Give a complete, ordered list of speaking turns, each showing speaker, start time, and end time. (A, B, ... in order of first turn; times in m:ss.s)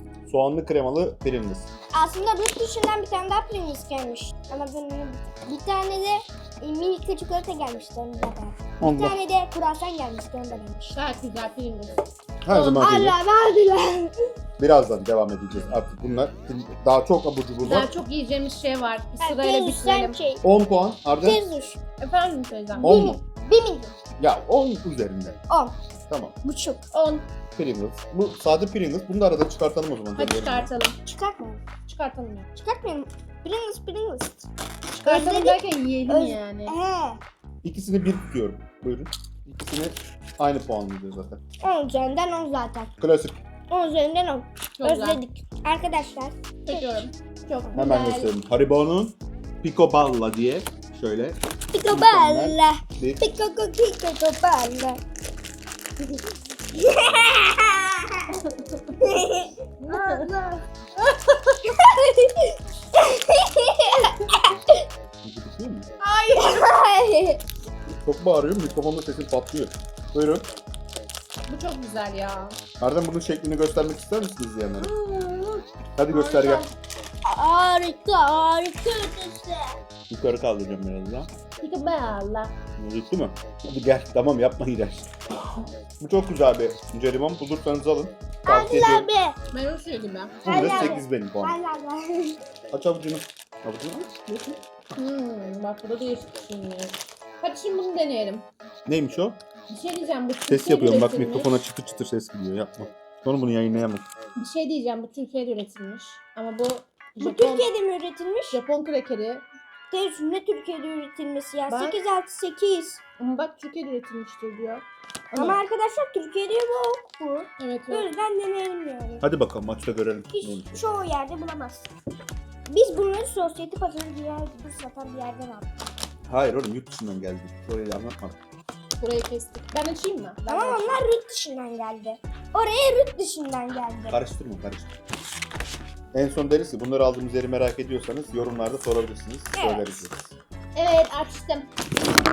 0:00.3-0:01.7 A
0:01.9-0:11.0 B
0:08.8-0:09.2 A
0:10.9-0:12.0 C
0:12.4-0:13.2 A
0:12.5-0:14.1 B
0:14.6-0:17.9 A
0:17.6-0:20.2 C
0:19.2-0:20.4 B
0:20.4-0:21.5 A
0:21.2-0:21.8 B
0:22.0-0:22.9 C
0:22.7-0:23.9 B
0:22.8-0:23.2 A
0:24.2-0:25.4 A
0:25.5-0:25.8 B
0:26.1-0:26.3 A
0:26.4-0:26.9 B
0:26.9-0:27.3 C
0:27.6-0:30.7 A
0:30.2-0:30.9 C
0:31.0-0:31.6 B
0:31.8-0:32.4 C
0:32.6-0:34.5 B
0:34.9-0:36.7 C
0:35.0-0:37.2 B
0:37.6-0:41.4 A
0:41.6-0:42.9 B
0:43.0-0:43.4 A
0:43.7-0:47.1 B
0:44.8-0:45.2 C
0:46.6-0:48.3 C
0:47.7-0:53.2 A
0:51.7-0:55.0 B
0:56.7-0:58.3 B
0:59.0-1:00.6 B
0:59.8-1:00.2 C
1:01.6-1:04.8 B
1:05.2-1:05.9 A
1:06.0-1:06.5 C
1:06.3-1:07.4 B
1:08.0-1:10.5 A
1:11.5-1:12.6 C
1:12.8-1:14.9 A
1:14.8-1:15.6 B
1:16.0-1:16.6 A
1:16.1-1:16.7 C
1:17.2-1:19.7 B
1:20.1-1:21.3 A
1:21.6-1:22.5 C
1:22.8-1:25.1 A
1:26.0-1:29.1 A
1:28.4-1:29.4 B
1:29.5-1:31.0 C
1:30.4-1:31.6 A
1:30.4-1:32.4 B
1:32.7-1:34.1 A
1:34.3-1:38.4 C
1:38.8-1:39.4 A
1:39.7-1:41.6 C
1:40.5-1:44.0 A
1:44.4-1:47.7 C
1:47.2-1:48.6 B
1:48.5-1:49.4 C
1:49.9-1:53.0 B
1:51.7-1:52.0 C
1:53.2-1:55.6 C
1:55.3-1:59.2 B
1:57.6-1:58.1 C
1:59.2-2:00.8 A
2:00.3-2:01.9 B
2:02.7-2:05.6 B
2:06.3-2:08.4 A
2:09.0-2:11.0 C
2:10.4-2:14.2 B
2:14.1-2:14.9 A
2:16.1-2:20.3 A
2:19.5-2:20.0 B
2:20.7-2:21.7 C